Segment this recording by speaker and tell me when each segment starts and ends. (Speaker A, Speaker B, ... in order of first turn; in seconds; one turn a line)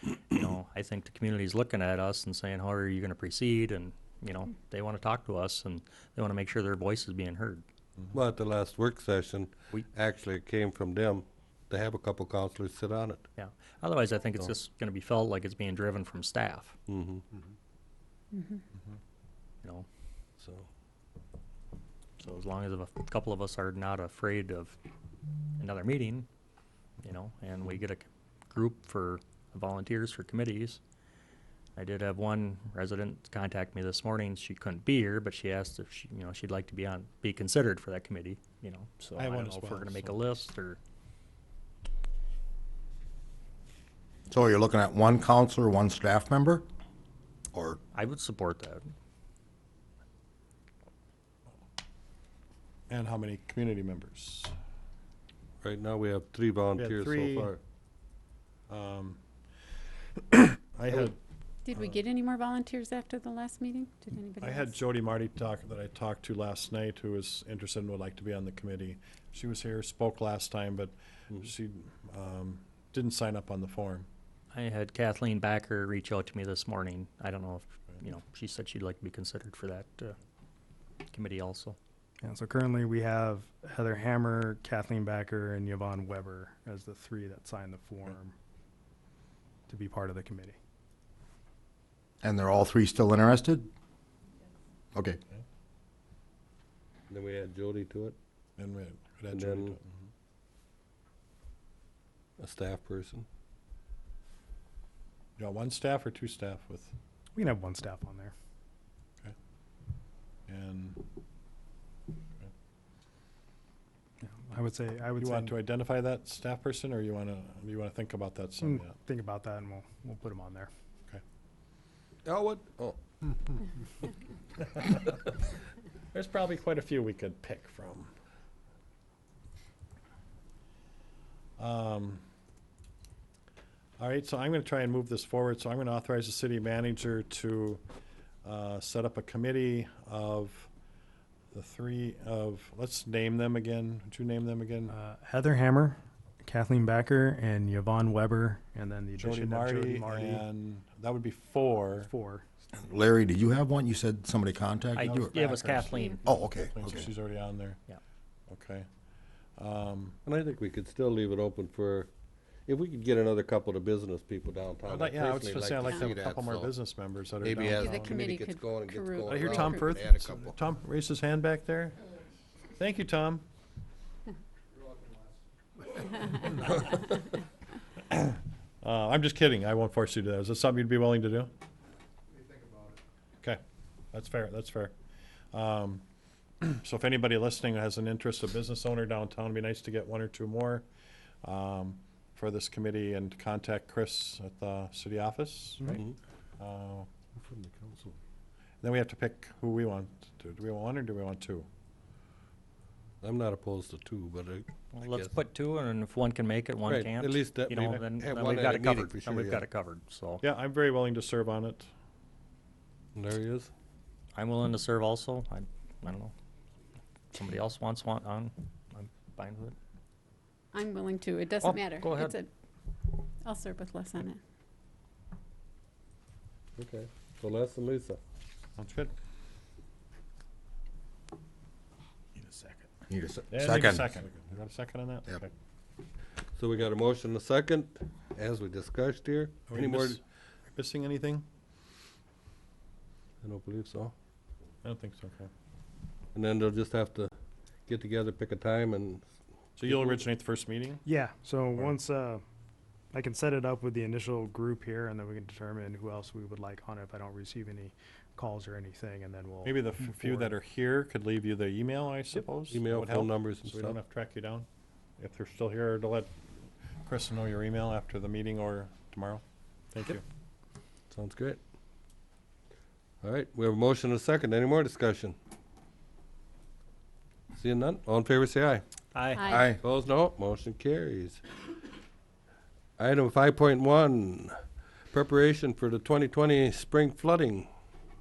Speaker A: 0.3-7.6
Speaker B: 8.1-13.2
Speaker A: 13.4-16.8
Speaker B: 16.9-17.2
Speaker C: 18.3-18.6
Speaker B: 20.4-20.7
Speaker A: 22.2-24.8
Speaker A: 25.6-26.3
Speaker A: 27.0-30.8
Speaker A: 31.8-40.8
Speaker D: 39.2-40.1
Speaker E: 44.3-46.6
Speaker E: 47.5-47.8
Speaker A: 47.9-48.9
Speaker D: 52.9-54.5
Speaker B: 55.6-57.6
Speaker D: 56.8-57.5
Speaker D: 58.7-59.2
Speaker D: 60.3-61.1
Speaker C: 61.6-64.8
Speaker D: 64.4-74.1
Speaker A: 74.5-80.2
Speaker A: 81.1-81.8
Speaker F: 82.2-88.3
Speaker F: 89.7-90.6
Speaker E: 92.2-93.7
Speaker E: 94.9-95.2
Speaker B: 97.1-98.2
Speaker D: 98.6-100.0
Speaker B: 99.3-99.7
Speaker B: 102.4-103.2
Speaker D: 105.4-106.9
Speaker F: 107.3-108.3
Speaker D: 110.5-111.0
Speaker F: 114.2-115.6
Speaker D: 115.2-119.0
Speaker F: 118.6-120.7
Speaker B: 122.2-123.0
Speaker D: 124.6-125.0
Speaker D: 126.1-128.1
Speaker D: 131.6-132.2
Speaker D: 134.0-137.8
Speaker D: 138.4-140.7
Speaker D: 141.5-144.9
Speaker F: 144.9-150.4
Speaker D: 149.2-152.1
Speaker F: 151.9-152.4
Speaker E: 152.7-155.4
Speaker A: 155.0-156.2
Speaker D: 155.0-157.8
Speaker C: 155.8-156.2
Speaker E: 156.2-157.1
Speaker D: 158.5-158.9
Speaker D: 159.6-160.2
Speaker B: 160.2-162.1
Speaker B: 162.7-166.7
Speaker D: 164.9-168.2
Speaker C: 165.8-166.2
Speaker B: 167.4-170.5
Speaker C: 167.8-170.0
Speaker D: 169.2-172.0
Speaker D: 172.8-173.4
Speaker D: 178.1-181.5
Speaker D: 184.1-184.9
Speaker D: 185.5-186.0
Speaker D: 186.6-190.8
Speaker D: 191.4-196.0
Speaker D: 196.6-197.1
Speaker B: 197.4-198.2
Speaker D: 198.8-201.7
Speaker B: 203.2-205.3
Speaker A: 204.9-210.4
Speaker B: 206.8-209.6
Speaker D: 210.4-211.9
Speaker B: 213.2-213.7
Speaker A: 214.3-216.3
Speaker A: 217.3-219.8
Speaker C: 220.7-222.5
Speaker A: 221.6-222.3
Speaker C: 223.4-224.4
Speaker B: 226.8-228.2
Speaker D: 228.8-229.1
Speaker E: 233.1-234.1
Speaker D: 233.5-235.5
Speaker B: 236.6-240.2
Speaker D: 239.7-240.2
Speaker D: 240.7-241.4
Speaker B: 243.4-244.1
Speaker D: 244.8-245.5
Speaker B: 246.3-247.3
Speaker B: 247.9-249.2
Speaker D: 249.8-251.0
Speaker B: 249.8-250.2
Speaker F: 251.0-252.4
Speaker F: 253.1-260.5
Speaker D: 259.6-264.7
Speaker B: 262.7-264.0
Speaker D: 265.2-266.3
Speaker D: 267.0-270.2
Speaker B: 271.1-271.6
Speaker B: 273.2-275.3
Speaker B: 277.6-278.8
Speaker A: 279.1-279.4
Speaker C: 279.3-279.7
Speaker B: 279.4-281.4
Speaker E: 279.5-279.8
Speaker B: 283.0-284.6
Speaker B: 285.1-287.7